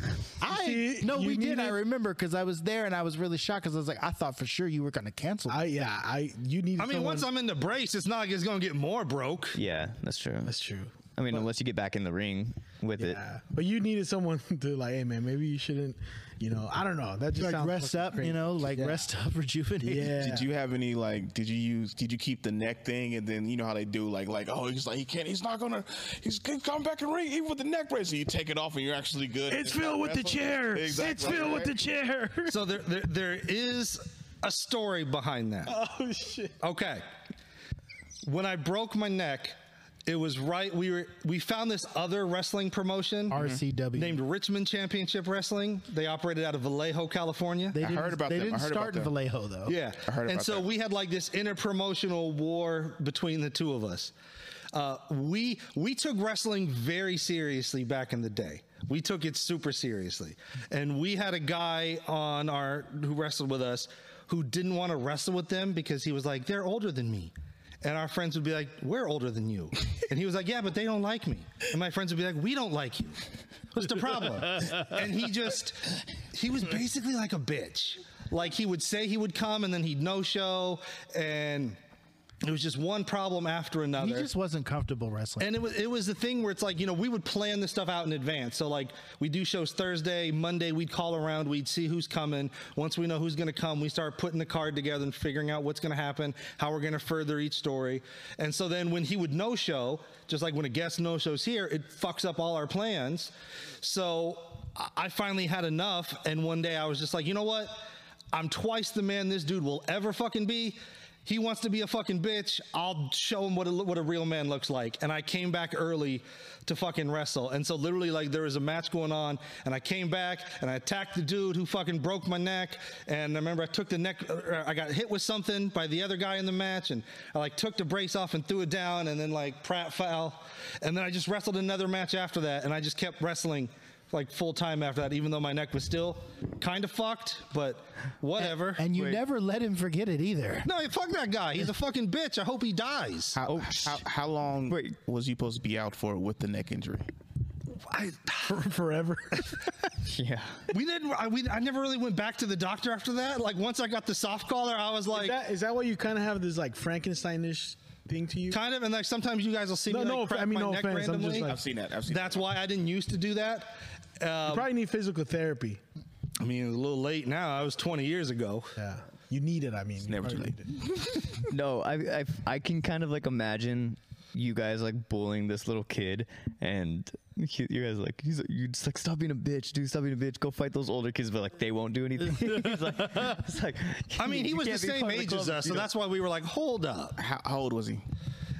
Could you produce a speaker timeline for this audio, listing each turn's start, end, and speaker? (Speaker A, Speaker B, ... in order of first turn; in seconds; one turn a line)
Speaker A: 0.4-5.6
Speaker B: 0.4-1.8
Speaker B: 5.5-7.3
Speaker C: 6.8-9.6
Speaker D: 9.5-10.5
Speaker B: 10.4-11.5
Speaker D: 11.2-13.2
Speaker B: 13.0-19.1
Speaker A: 17.4-20.2
Speaker B: 19.8-20.5
Speaker E: 20.0-31.7
Speaker B: 29.5-32.6
Speaker C: 32.5-35.7
Speaker B: 35.6-36.6
Speaker C: 36.6-37.0
Speaker C: 38.2-43.4
Speaker A: 43.3-44.2
Speaker E: 43.3-43.6
Speaker C: 43.9-47.8
Speaker A: 47.7-49.8
Speaker E: 47.8-49.1
Speaker C: 49.7-54.1
Speaker E: 50.0-50.7
Speaker C: 54.7-81.8
Speaker C: 82.4-84.3
Speaker A: 84.0-85.5
Speaker C: 85.4-138.8
Speaker A: 138.4-140.7
Speaker D: 138.9-139.2
Speaker C: 140.6-143.4
Speaker E: 143.3-147.1
Speaker D: 143.4-144.0
Speaker D: 144.7-144.9
Speaker C: 147.9-148.5
Speaker B: 148.4-149.6
Speaker D: 150.0-150.7
Speaker C: 150.7-155.4
Speaker B: 155.1-158.6
Speaker C: 158.5-161.5
Speaker B: 159.9-161.6
Speaker E: 161.4-162.5
Speaker C: 162.1-164.7
Speaker B: 164.4-165.8
Speaker C: 166.4-168.7
Speaker B: 168.8-170.7
Speaker E: 170.0-171.3
Speaker D: 171.4-185.9
Speaker C: 184.2-187.2
Speaker E: 187.2-188.0